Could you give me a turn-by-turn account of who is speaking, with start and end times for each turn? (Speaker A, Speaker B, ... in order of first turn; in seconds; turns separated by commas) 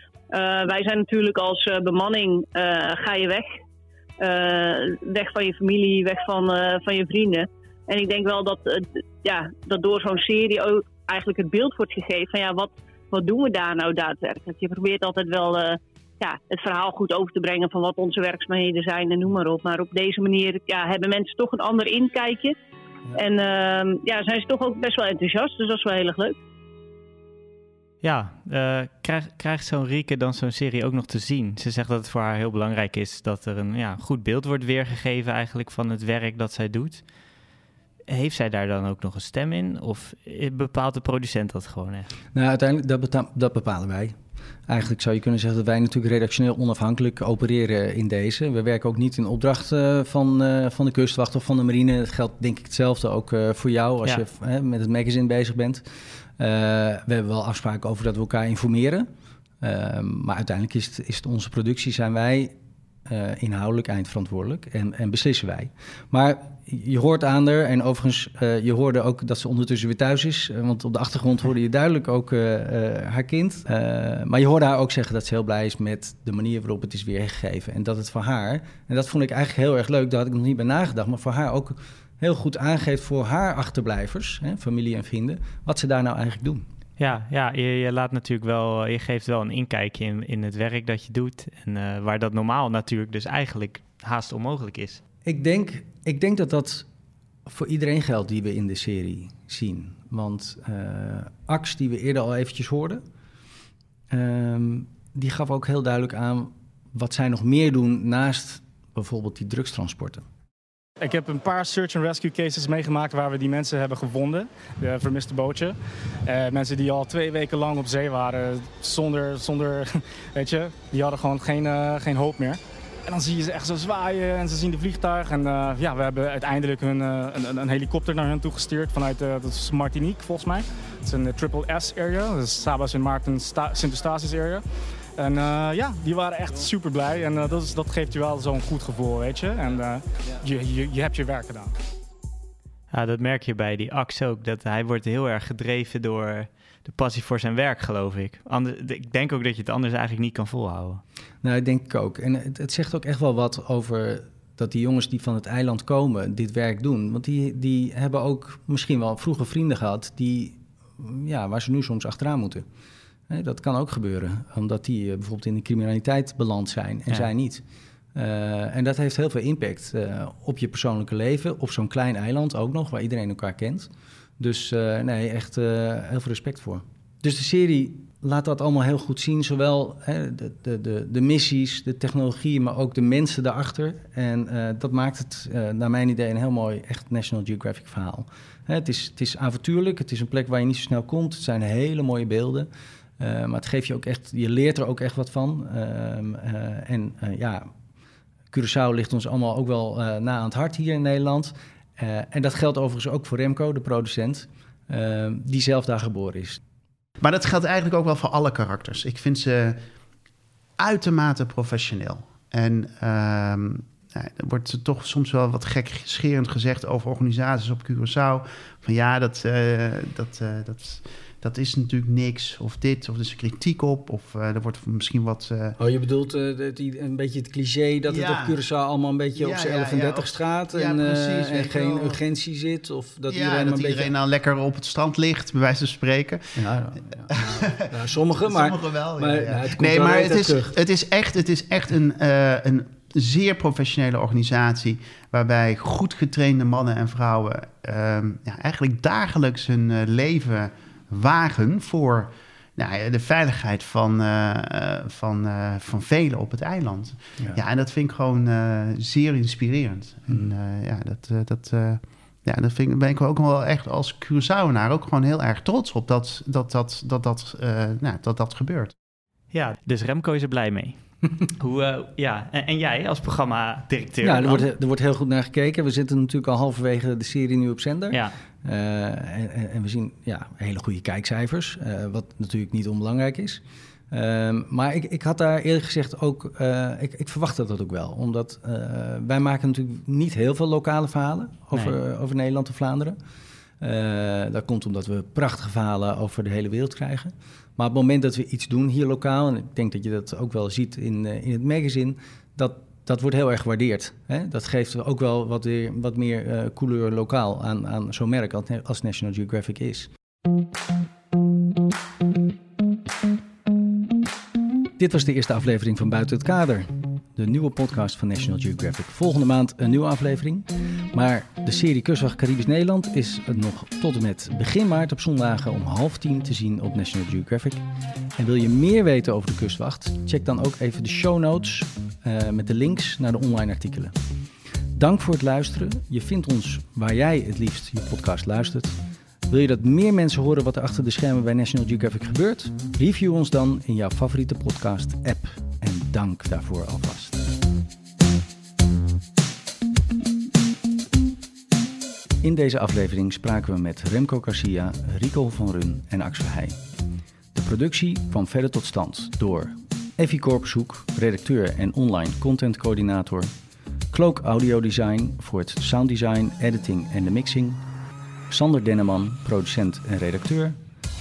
Speaker A: 0.3-3.5, Speaker A: 4.2-22.6, Speaker A: 23.1-26.4, Speaker B: 28.0-37.0, Speaker B: 38.1-42.1, Speaker C: 42.3-44.2, Speaker C: 44.7-55.8, Speaker C: 56.4-59.1, Speaker C: 59.6-62.5, Speaker C: 63.1-86.6, Speaker B: 87.0-95.0, Speaker C: 95.2-96.8, Speaker C: 97.5-103.0, Speaker C: 104.1-110.2, Speaker D: 111.0-134.6, Speaker D: 135.2-141.7, Speaker B: 142.9-151.0, Speaker C: 151.4-162.6, Speaker C: 163.3-167.6, Speaker C: 168.1-192.7, Speaker C: 193.2-197.7, Speaker C: 198.5-206.6, Speaker E: 207.2-209.8, Speaker E: 210.8-225.8, Speaker C: 225.8-234.1, Speaker E: 228.1-228.6, Speaker E: 229.3-232.2, Speaker E: 233.3-236.6, Speaker C: 236.6-240.7, Speaker E: 237.3-268.9, Speaker B: 269.5-274.7, Speaker C: 274.2-293.2, Speaker C: 293.8-310.1, Speaker C: 315.0-327.8, Speaker C: 328.4-334.1, Speaker C: 334.9-338.9, Speaker C: 339.5-347.4, Speaker C: 352.4-356.8, Speaker C: 357.5-363.5, Speaker C: 364.1-367.8, Speaker C: 368.5-370.8